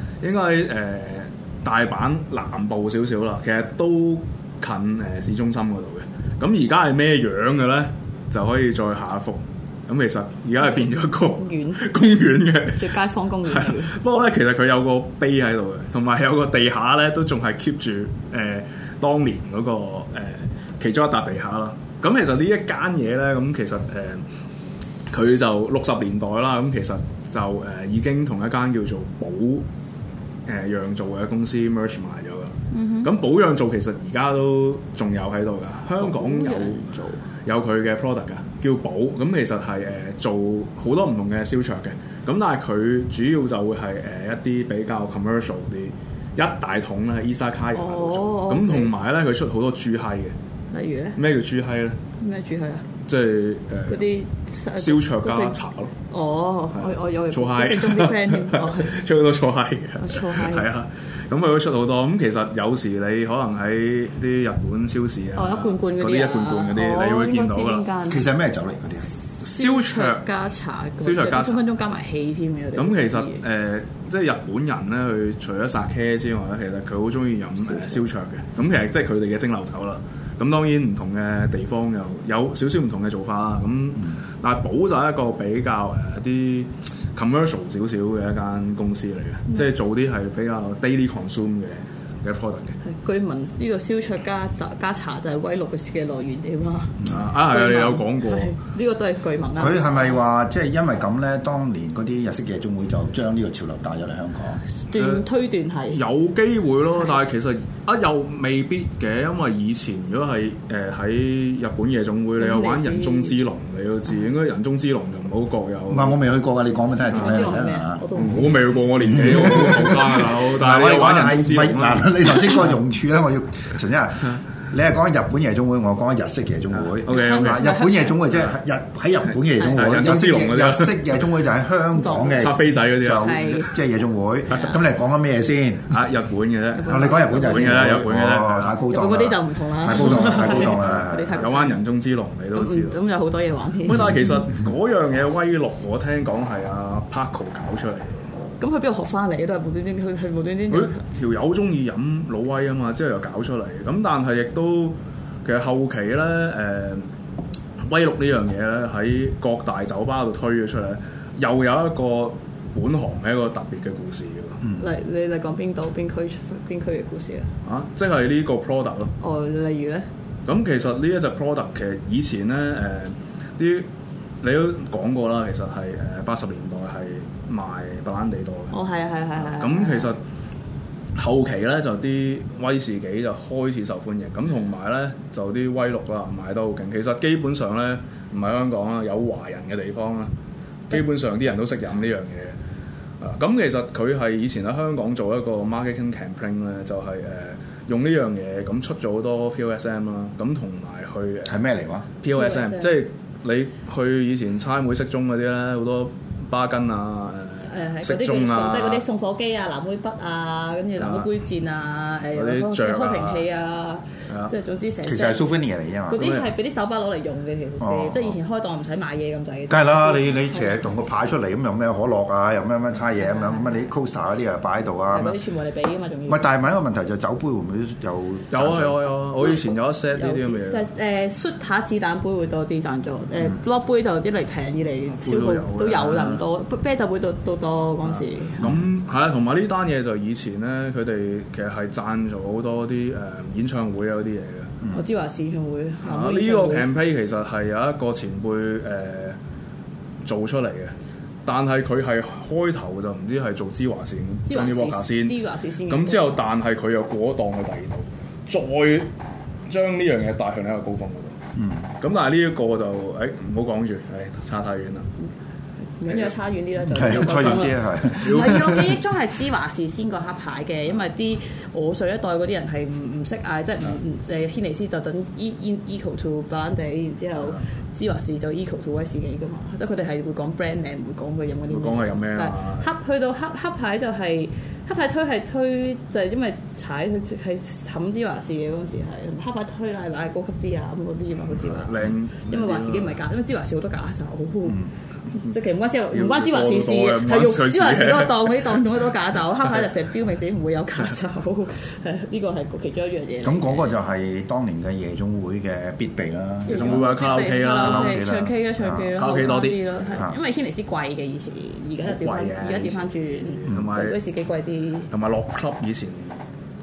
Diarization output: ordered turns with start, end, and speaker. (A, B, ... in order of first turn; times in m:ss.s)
0:00.2-0:12.9 A
0:11.3-0:12.0 B
0:12.7-0:13.9 B
0:13.4-0:24.2 A
0:25.1-0:29.6 A
0:30.4-0:36.8 A
0:32.7-0:33.1 B
0:36.0-0:37.2 B
0:37.4-0:50.3 A
0:47.8-0:48.9 B
0:50.7-0:51.2 B
0:51.2-0:52.0 A
0:52.2-0:52.9 B
0:53.1-0:54.1 A
0:53.9-0:55.6 B
0:54.8-0:55.9 A
0:56.1-0:58.9 B
0:56.8-1:07.9 A
1:00.0-1:00.7 B
1:05.3-1:08.2 B
1:08.1-1:09.1 C
1:09.3-1:13.4 B
1:09.4-1:10.2 A
1:11.0-1:11.6 A
1:12.8-1:32.8 A
1:32.8-1:40.2 B
1:37.0-1:37.2 C
1:37.0-1:38.5 A
1:39.6-1:44.6 C
1:44.8-1:46.0 B
1:45.0-1:45.2 A
1:45.9-1:56.2 A
1:52.4-1:53.4 B
1:55.9-1:58.1 C
1:57.1-1:58.5 B
1:58.1-2:02.6 A
1:59.1-2:15.9 C
2:06.7-2:07.6 A
2:07.1-2:08.1 B
2:08.3-2:08.6 A
2:09.6-2:11.2 A
2:09.6-2:09.9 B
2:11.9-2:12.5 B
2:12.2-2:13.3 A
2:13.1-2:13.8 B
2:15.9-2:18.8 A
2:16.8-2:17.8 B
2:16.8-2:21.5 C
2:18.9-2:21.8 B
2:20.2-2:23.0 A
2:22.5-2:24.1 B
2:23.8-2:28.2 A
2:28.6-2:31.0 B
2:30.7-2:37.0 A
2:37.9-2:44.6 A
2:44.8-2:47.5 B
2:47.6-2:49.1 A
2:49.2-2:50.0 B
2:50.4-2:53.9 A
2:54.4-2:58.7 A
2:58.7-3:00.1 B
2:59.4-3:00.2 A
3:01.1-3:10.3 A
3:10.9-3:12.6 A
3:13.2-3:21.6 A
3:21.4-3:22.1 C
3:22.2-3:29.0 A
3:22.3-3:23.0 B
3:27.6-3:35.5 B
3:31.0-3:31.3 A
3:32.3-3:33.4 A
3:35.0-3:36.4 C
3:36.1-3:40.9 B
3:36.2-3:36.5 A
3:37.8-3:38.4 C
3:39.7-3:45.3 C
3:43.2-3:43.8 B
3:45.1-3:46.4 B
3:46.3-3:49.0 C
3:48.5-3:50.9 A
3:50.1-3:58.7 B
3:55.1-3:56.4 A
3:58.6-4:04.8 A
4:04.9-4:06.9 B
4:06.0-4:09.4 A
4:10.2-4:10.9 A
4:11.4-4:15.4 A
4:14.5-4:16.4 B
4:15.9-4:19.1 A
4:19.7-4:21.4 A
4:21.5-4:21.9 C
4:22.0-4:25.1 A
4:26.0-5:03.9 B
4:26.0-4:26.3 A
4:26.8-4:28.9 C
4:26.9-4:28.8 A
4:41.7-4:42.9 A
4:51.5-4:53.2 A
4:56.1-4:58.4 A
5:03.4-5:09.2 C
5:06.6-5:15.1 B
5:06.7-5:08.2 A
5:09.1-5:10.2 A
5:12.0-5:14.2 A
5:15.1-5:16.4 A